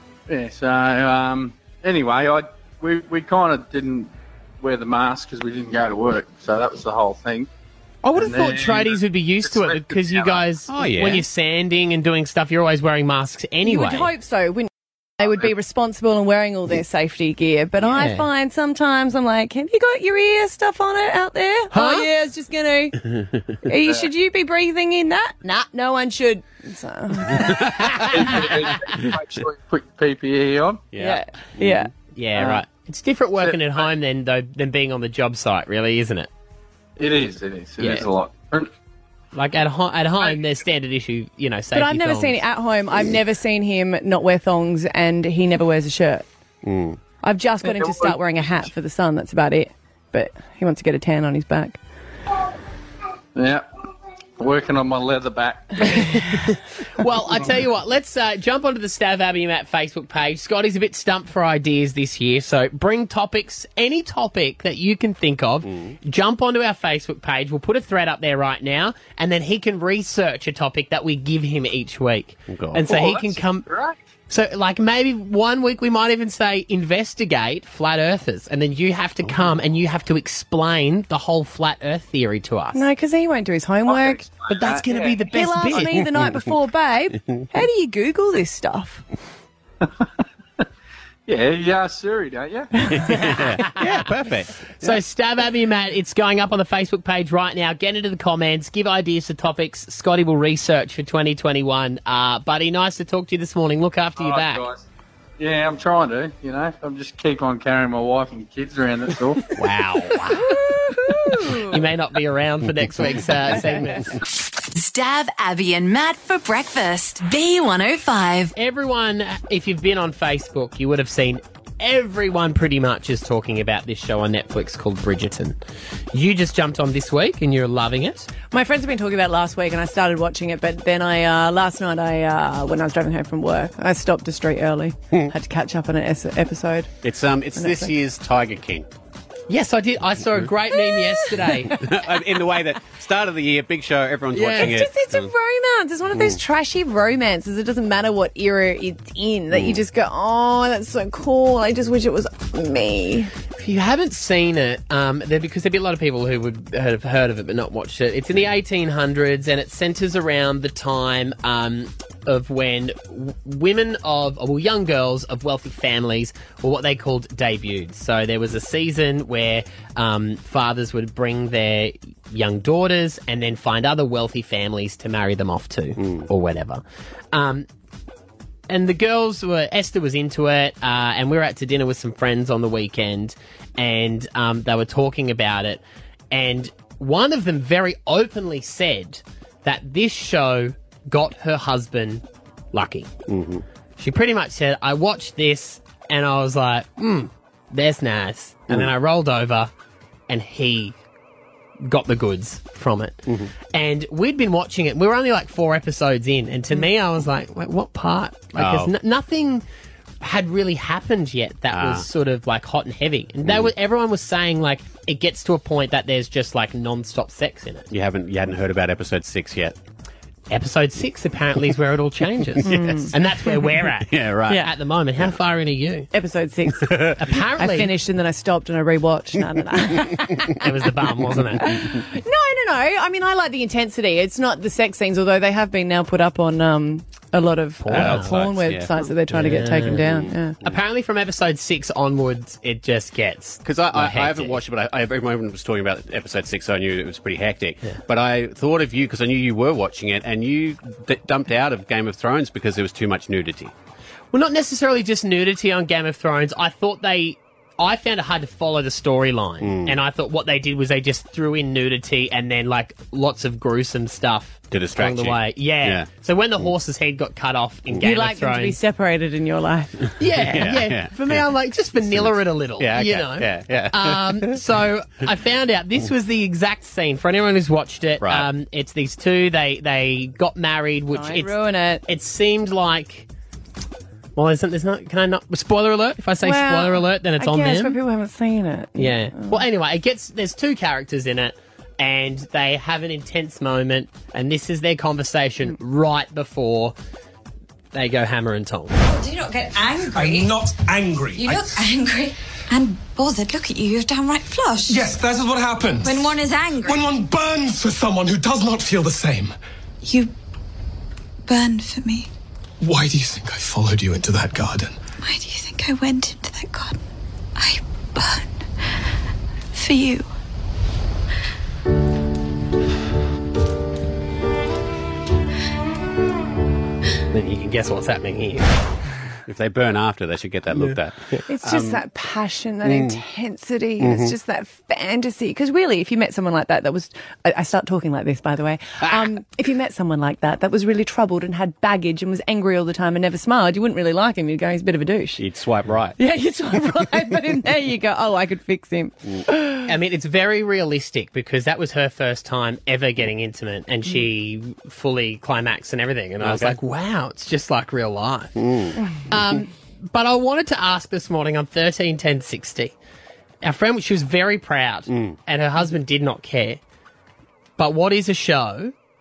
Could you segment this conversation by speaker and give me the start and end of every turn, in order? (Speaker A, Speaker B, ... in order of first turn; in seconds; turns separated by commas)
Speaker A: 0.3-7.5, Speaker B: 8.0-14.1, Speaker A: 8.2-10.4, Speaker C: 10.7-11.2, Speaker D: 13.6-14.7, Speaker D: 15.2-23.1, Speaker B: 17.8-18.2, Speaker B: 21.7-22.1, Speaker D: 23.6-28.1, Speaker C: 27.3-28.5, Speaker A: 28.0-30.8, Speaker C: 30.9-31.9, Speaker D: 30.9-31.9, Speaker B: 32.1-36.3, Speaker A: 32.3-32.6, Speaker A: 33.4-33.9, Speaker A: 37.0-38.7, Speaker B: 37.8-38.1, Speaker B: 39.3-42.4, Speaker D: 41.7-46.2, Speaker C: 46.6-47.0, Speaker D: 47.2-51.8, Speaker A: 47.6-48.6, Speaker A: 53.4-53.6, Speaker A: 54.4-56.2, Speaker B: 56.1-73.7, Speaker C: 65.6-66.0, Speaker C: 72.5-72.8, Speaker A: 72.8-74.0, Speaker B: 74.3-82.8, Speaker D: 82.7-84.3, Speaker A: 83.8-85.2, Speaker B: 84.5-86.0, Speaker D: 85.3-89.0, Speaker A: 89.8-90.1, Speaker A: 91.3-92.7, Speaker C: 92.9-95.0, Speaker B: 93.0-94.0, Speaker B: 94.8-104.6, Speaker A: 104.2-104.8, Speaker A: 105.4-109.4, Speaker B: 109.5-110.5, Speaker D: 110.2-111.8, Speaker B: 111.5-114.1, Speaker E: 114.7-118.5, Speaker B: 118.5-125.6, Speaker B: 126.1-128.3, Speaker D: 128.5-136.9, Speaker C: 137.0-138.9, Speaker D: 137.6-137.9, Speaker B: 139.5-141.8, Speaker D: 140.8-141.3, Speaker C: 141.7-145.3, Speaker B: 144.3-144.8, Speaker D: 144.5-153.3, Speaker C: 146.1-146.4, Speaker C: 149.5-149.8, Speaker B: 153.6-177.7, Speaker C: 176.0-176.3, Speaker B: 178.7-193.1, Speaker C: 193.3-193.6, Speaker B: 194.0-199.7, Speaker B: 200.3-201.0, Speaker B: 201.8-203.2, Speaker C: 203.2-203.5, Speaker B: 203.7-209.6, Speaker C: 208.5-208.9, Speaker B: 210.2-217.9, Speaker C: 211.7-212.1, Speaker C: 213.4-213.7, Speaker C: 217.9-219.8, Speaker B: 220.5-226.1, Speaker C: 222.6-223.2, Speaker D: 222.6-223.1, Speaker C: 223.8-224.7, Speaker D: 226.1-230.6, Speaker C: 226.9-227.1, Speaker B: 227.2-227.9, Speaker B: 230.6-231.7, Speaker D: 231.6-240.6, Speaker B: 237.8-238.4, Speaker C: 237.9-238.9, Speaker B: 239.3-240.0, Speaker C: 239.8-240.8, Speaker B: 240.6-244.6, Speaker C: 243.6-253.7, Speaker B: 254.3-268.8, Speaker C: 259.6-260.0, Speaker C: 264.7-266.1, Speaker D: 268.0-269.9, Speaker B: 270.2-281.5, Speaker C: 270.4-271.4, Speaker C: 271.9-274.6, Speaker C: 278.2-278.5, Speaker D: 281.1-282.0, Speaker B: 282.1-283.3, Speaker B: 284.4-288.0, Speaker D: 286.4-289.6, Speaker B: 289.0-296.9, Speaker B: 297.9-298.9, Speaker F: 299.0-300.7, Speaker G: 300.1-301.6, Speaker F: 301.3-305.0, Speaker G: 304.9-305.8, Speaker F: 306.0-307.1, Speaker G: 306.9-307.5, Speaker F: 310.0-310.3, Speaker F: 311.4-312.3, Speaker G: 314.2-314.7, Speaker F: 315.2-317.0, Speaker F: 317.6-319.0, Speaker F: 319.7-320.3, Speaker B: 327.3-328.8, Speaker C: 329.4-332.0, Speaker D: 331.5-345.4, Speaker C: 332.8-333.2, Speaker C: 334.0-334.3, Speaker C: 339.0-339.3, Speaker C: 345.4-346.2, Speaker D: 346.2-349.9, Speaker B: 349.9-358.6, Speaker C: 356.4-356.8, Speaker C: 358.6-359.6, Speaker B: 359.3-362.9, Speaker B: 363.6-366.8, Speaker C: 365.1-365.4, Speaker B: 367.8-368.9